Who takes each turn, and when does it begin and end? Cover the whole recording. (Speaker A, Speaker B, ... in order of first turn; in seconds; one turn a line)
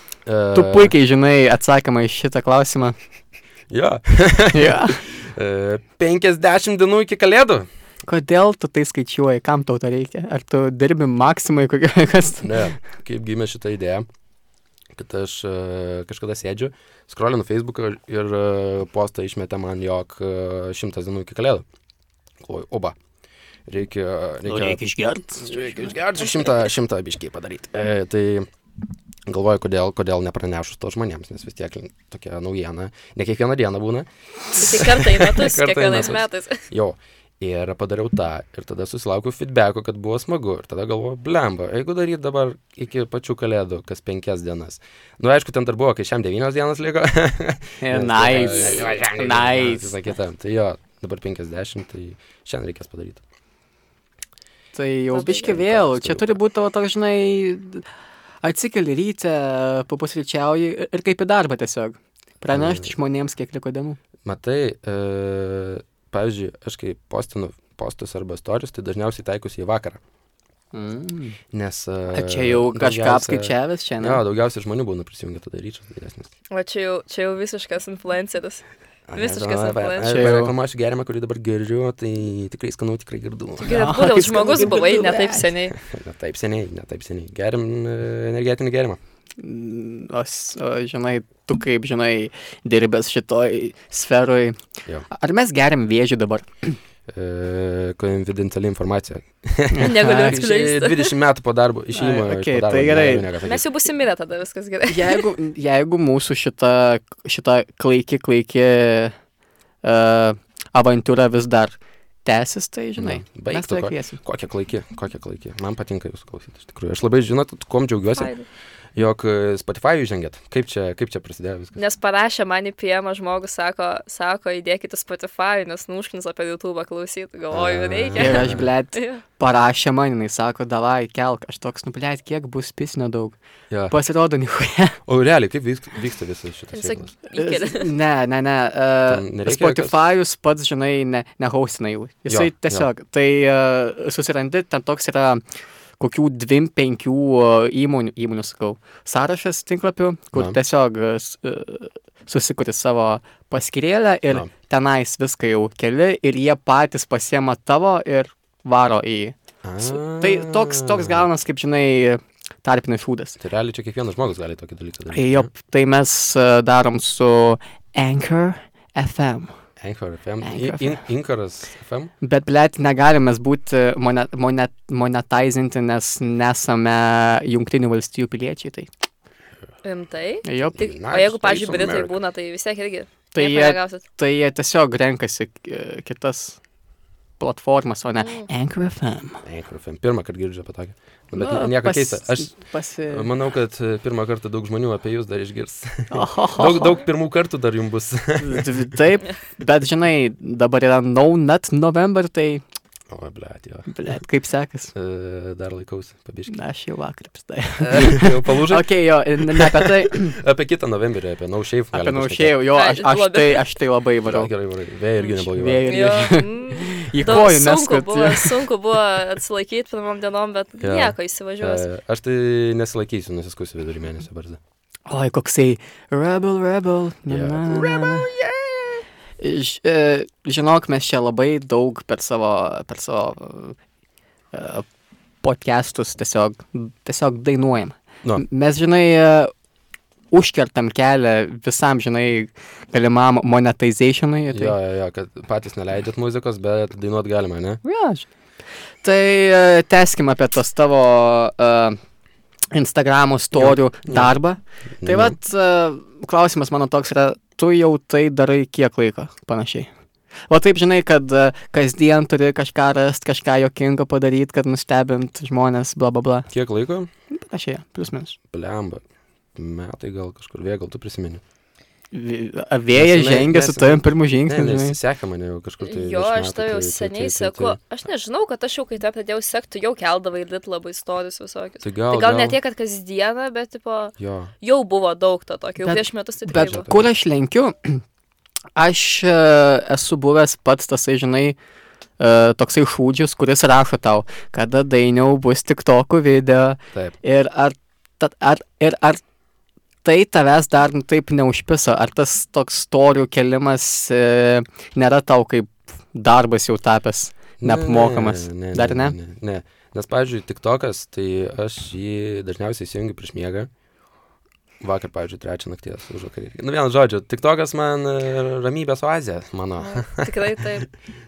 Speaker A: 0.3-0.9
Speaker B: 0.5-3.0
Speaker A: 3.7-7.7
Speaker B: 4.5-5.0
Speaker B: 8.1-12.7
Speaker A: 12.4-14.1
Speaker A: 14.9-21.6
Speaker A: 22.4-23.0
Speaker A: 23.7-24.8
Speaker B: 24.5-25.9
Speaker A: 25.4-28.5
Speaker A: 29.3-53.2
Speaker C: 34.6-36.6
Speaker B: 47.8-50.0
Speaker B: 54.8-57.8
Speaker C: 55.1-55.5
Speaker A: 55.5-56.2
Speaker B: 58.4-64.0
Speaker A: 62.5-62.9
Speaker A: 64.2-70.0
Speaker B: 70.7-71.4
Speaker A: 71.5-76.3
Speaker B: 72.1-74.2
Speaker C: 76.5-78.6
Speaker A: 79.1-84.0
Speaker C: 79.2-80.1
Speaker B: 80.0-80.5
Speaker C: 83.6-85.8
Speaker B: 83.7-85.5
Speaker A: 85.7-89.0
Speaker B: 89.4-96.8
Speaker A: 97.1-103.7
Speaker B: 99.7-100.4
Speaker C: 99.8-101.1
Speaker B: 101.9-103.3
Speaker C: 103.4-105.2
Speaker B: 104.9-109.2
Speaker B: 109.8-114.2
Speaker A: 113.0-118.3
Speaker C: 118.2-118.5
Speaker A: 119.0-121.8
Speaker C: 121.8-129.2
Speaker A: 127.5-128.7
Speaker B: 128.2-133.4
Speaker A: 133.7-133.9
Speaker B: 133.9-135.0
Speaker A: 135.1-137.1
Speaker C: 136.7-137.9
Speaker B: 137.3-145.4
Speaker A: 139.1-140.0
Speaker A: 142.3-142.9
Speaker B: 146.0-163.4
Speaker A: 159.6-161.3
Speaker A: 163.4-165.5
Speaker B: 165.1-169.5
Speaker A: 169.8-172.1
Speaker B: 170.4-171.0
Speaker B: 172.2-178.9
Speaker C: 179.8-184.0
Speaker B: 180.4-180.9
Speaker A: 180.8-182.1
Speaker B: 183.3-186.6
Speaker B: 187.4-189.4
Speaker C: 188.2-188.5
Speaker A: 189.4-192.6
Speaker B: 191.3-193.3
Speaker A: 193.1-198.9
Speaker B: 196.1-197.0
Speaker B: 198.4-202.6
Speaker A: 203.1-203.9
Speaker B: 203.9-204.9
Speaker A: 204.9-206.5
Speaker B: 206.5-210.4
Speaker A: 207.8-212.6
Speaker B: 211.9-214.5
Speaker C: 212.8-213.7
Speaker A: 214.2-216.0
Speaker B: 215.5-218.7
Speaker C: 215.9-221.9
Speaker A: 220.8-224.6
Speaker B: 225.1-228.3
Speaker A: 227.3-228.6
Speaker B: 229.4-233.8
Speaker B: 234.5-234.9
Speaker B: 235.4-239.5
Speaker B: 240.3-244.8
Speaker A: 244.5-247.8
Speaker B: 247.8-248.3
Speaker B: 249.0-252.0
Speaker B: 252.7-259.9
Speaker A: 253.5-254.3
Speaker A: 255.0-255.4
Speaker B: 260.5-266.5
Speaker A: 266.5-267.1
Speaker B: 267.3-268.4
Speaker A: 268.5-269.0
Speaker A: 269.6-271.4
Speaker B: 272.1-275.0
Speaker A: 272.9-277.8
Speaker C: 275.8-286.9
Speaker A: 281.8-282.6
Speaker A: 284.2-284.5
Speaker B: 285.8-288.0
Speaker A: 286.5-287.1
Speaker B: 288.8-291.6
Speaker B: 292.2-299.2
Speaker B: 300.0-309.2
Speaker A: 307.6-313.7
Speaker A: 314.8-320.6
Speaker C: 319.8-320.9